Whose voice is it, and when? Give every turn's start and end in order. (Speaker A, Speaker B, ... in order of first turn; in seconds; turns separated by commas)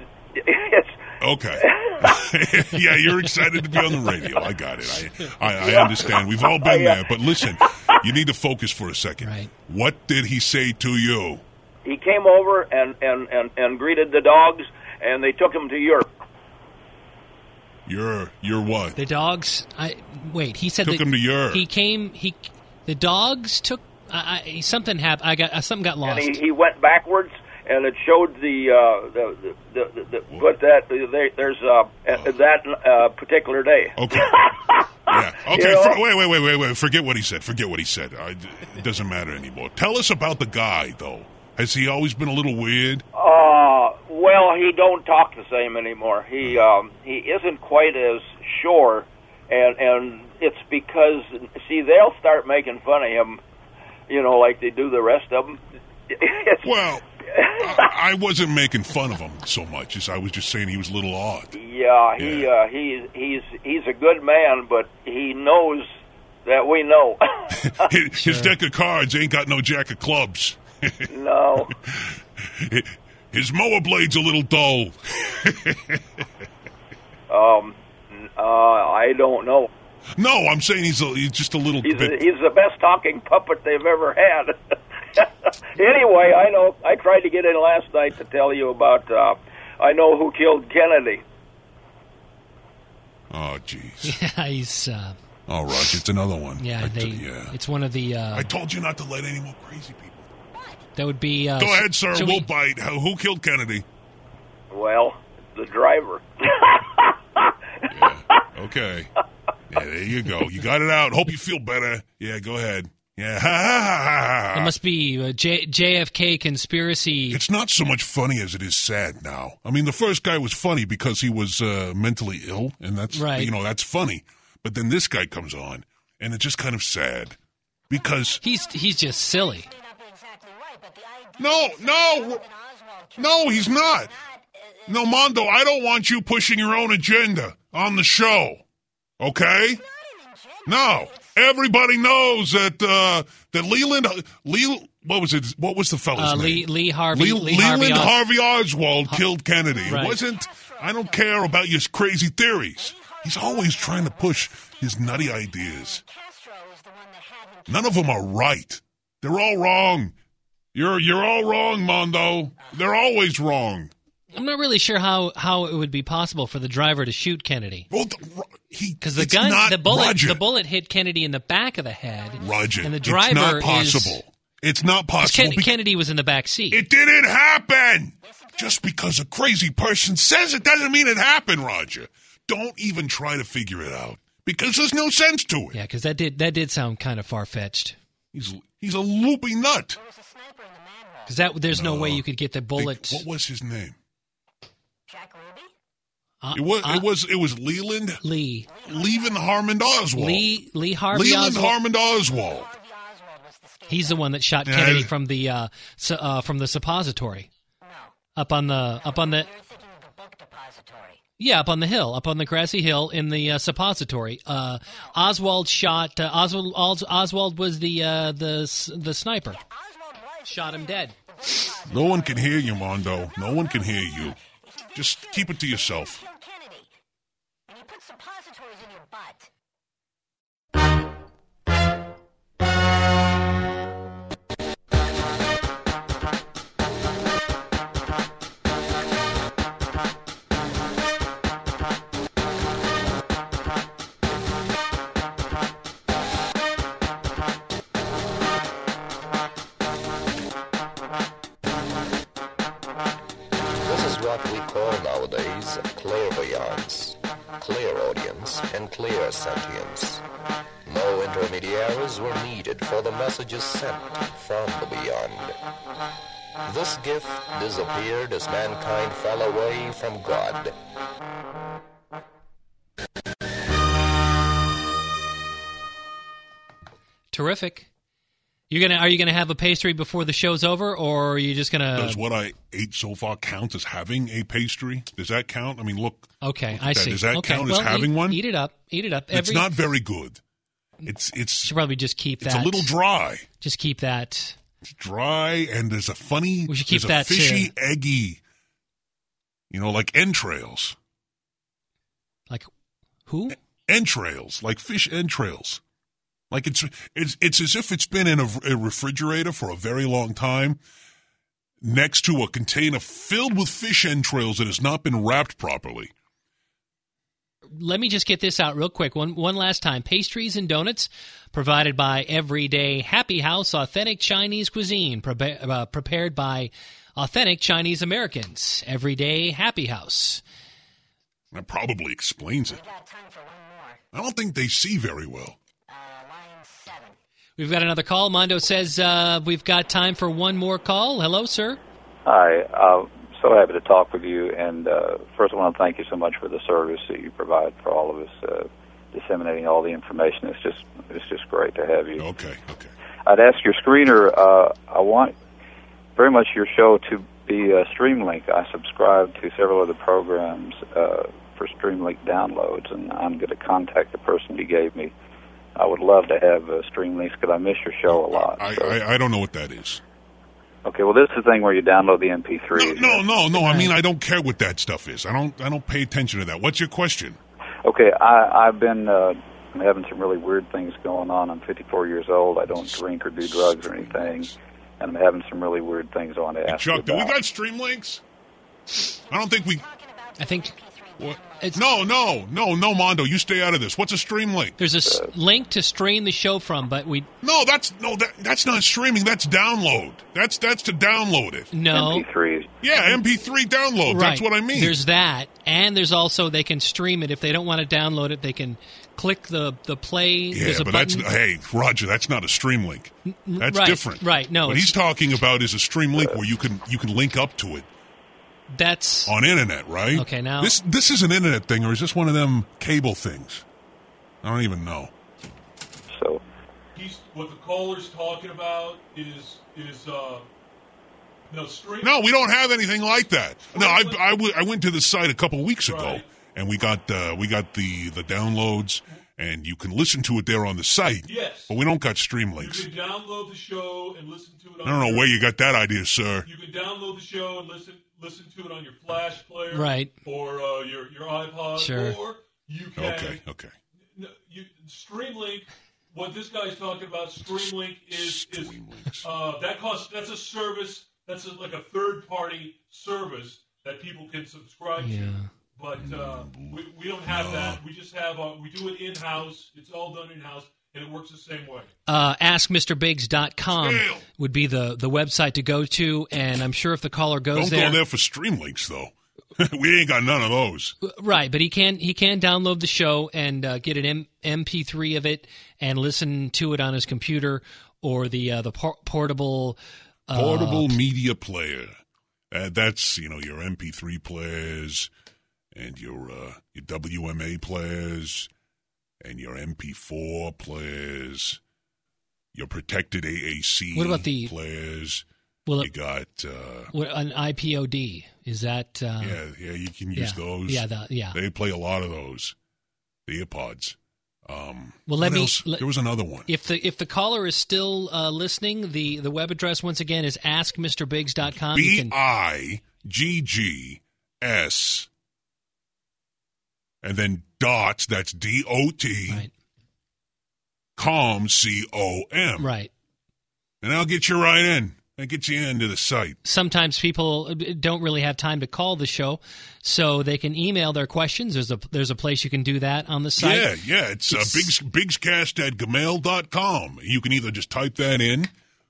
Speaker A: 0.3-1.0, Speaker B: 1.2-11.4, Speaker A: 1.6-2.2, Speaker A: 5.6-8.1, Speaker C: 9.2-9.5, Speaker A: 11.8-16.1, Speaker B: 17.9-19.0, Speaker C: 19.0-26.4, Speaker B: 20.8-21.6, Speaker A: 26.0-36.0, Speaker B: 32.1-32.4, Speaker B: 34.0-34.4, Speaker B: 35.1-43.0, Speaker A: 43.1-53.4, Speaker A: 54.1-55.6, Speaker A: 56.1-56.7, Speaker B: 56.6-61.5, Speaker A: 57.3-57.9, Speaker A: 61.5-65.9, Speaker B: 62.2-62.5, Speaker A: 66.5-67.9, Speaker B: 67.5-76.2, Speaker C: 68.2-68.5, Speaker A: 71.1-71.7, Speaker A: 77.3-79.7, Speaker B: 80.2-82.2, Speaker A: 81.8-91.2, Speaker B: 93.3-94.2, Speaker C: 94.0-95.2, Speaker B: 95.5-97.6, Speaker C: 96.6-98.5, Speaker B: 98.3-100.3, Speaker C: 101.0-102.5, Speaker B: 101.6-103.9, Speaker A: 104.7-107.5, Speaker B: 107.9-109.1, Speaker B: 109.7-114.8, Speaker C: 114.5-117.4, Speaker B: 117.3-127.4, Speaker C: 123.1-123.5, Speaker B: 127.9-128.4, Speaker C: 128.4-129.7, Speaker B: 131.4-132.5, Speaker B: 133.2-134.2, Speaker B: 134.9-138.6, Speaker B: 139.2-139.8, Speaker B: 140.7-156.0, Speaker C: 146.2-148.2, Speaker C: 149.8-150.2, Speaker B: 157.7-160.1, Speaker B: 160.7-163.9, Speaker C: 164.3-167.9, Speaker B: 167.9-170.4, Speaker C: 169.0-174.2, Speaker B: 172.4-175.8, Speaker C: 175.2-176.8, Speaker B: 176.7-185.8, Speaker C: 185.7-188.0, Speaker B: 188.3-190.0, Speaker C: 191.3-193.2, Speaker B: 191.7-194.0, Speaker C: 196.4-197.1, Speaker B: 196.5-198.2, Speaker C: 198.2-198.7, Speaker B: 198.8-200.5, Speaker C: 200.2-201.8, Speaker B: 201.1-202.7, Speaker C: 203.9-207.5, Speaker B: 204.7-205.1, Speaker C: 208.4-209.5, Speaker C: 211.4-219.6, Speaker C: 220.4-221.2, Speaker B: 221.9-224.4, Speaker B: 224.9-226.2, Speaker D: 253.8-260.2, Speaker D: 260.9-265.6, Speaker D: 266.6-270.8, Speaker C: 277.3-277.9, Speaker C: 278.7-282.2, Speaker B: 281.9-288.4, Speaker C: 286.4-289.7, Speaker B: 289.3-290.4, Speaker B: 291.1-291.8, Speaker C: 291.6-292.9, Speaker B: 292.4-293.5, Speaker C: 293.6-294.6, Speaker B: 294.8-298.4, Speaker C: 296.7-297.7, Speaker B: 299.7-301.0, Speaker C: 303.3-303.6, Speaker B: 303.9-305.8, Speaker B: 306.5-310.8, Speaker B: 311.8-316.1, Speaker C: 317.8-330.4, Speaker B: 331.5-332.8, Speaker B: 334.1-335.6, Speaker C: 337.6-341.8, Speaker E: 342.2-352.3, Speaker B: 352.2-352.9, Speaker E: 353.3-355.3, Speaker E: 356.2-365.1, Speaker E: 365.8-369.0, Speaker B: 368.1-370.0, Speaker E: 370.9-373.3, Speaker B: 372.7-377.4, Speaker C: 373.6-373.9, Speaker E: 377.9-387.4, Speaker B: 382.7-384.6, Speaker B: 386.7-388.2, Speaker B: 389.3-389.9, Speaker C: 390.4-390.8, Speaker B: 391.2-394.8, Speaker C: 391.6-391.9, Speaker C: 394.8-397.3, Speaker E: 395.0-395.3, Speaker B: 397.4-401.7, Speaker C: 401.7-402.3, Speaker E: 401.9-402.7, Speaker B: 402.8-405.0, Speaker C: 404.1-411.3, Speaker B: 410.5-417.9, Speaker C: 413.3-415.0, Speaker C: 418.7-419.3, Speaker B: 419.3-423.6, Speaker C: 420.1-420.8, Speaker B: 424.4-425.1, Speaker E: 426.1-426.4, Speaker F: 426.9-430.5, Speaker F: 431.5-432.1, Speaker B: 432.0-442.9, Speaker F: 433.7-434.3, Speaker F: 435.8-436.3, Speaker F: 441.3-441.8, Speaker F: 442.6-445.3, Speaker B: 444.8-446.5, Speaker F: 446.4-453.4, Speaker C: 449.7-450.1, Speaker C: 451.8-452.2, Speaker B: 453.0-453.7, Speaker F: 454.1-471.9, Speaker B: 457.4-459.3, Speaker C: 465.0-465.5, Speaker B: 465.9-467.8, Speaker C: 472.1-478.0, Speaker B: 473.7-474.3, Speaker B: 477.5-481.0, Speaker C: 481.0-491.0, Speaker B: 490.3-492.0, Speaker B: 492.5-495.1, Speaker B: 495.7-498.5, Speaker B: 499.2-501.6, Speaker B: 502.5-505.2, Speaker C: 503.9-504.5, Speaker C: 505.7-505.9, Speaker B: 505.8-506.9, Speaker C: 506.9-509.4, Speaker B: 509.2-512.6, Speaker C: 510.1-511.4, Speaker B: 513.3-516.5, Speaker C: 515.1-515.9, Speaker C: 516.5-522.2, Speaker B: 521.6-525.1, Speaker B: 527.0-529.5, Speaker B: 531.0-532.7, Speaker C: 532.6-532.9, Speaker B: 533.8-536.4, Speaker C: 536.4-543.7, Speaker B: 543.4-548.5, Speaker C: 544.3-544.7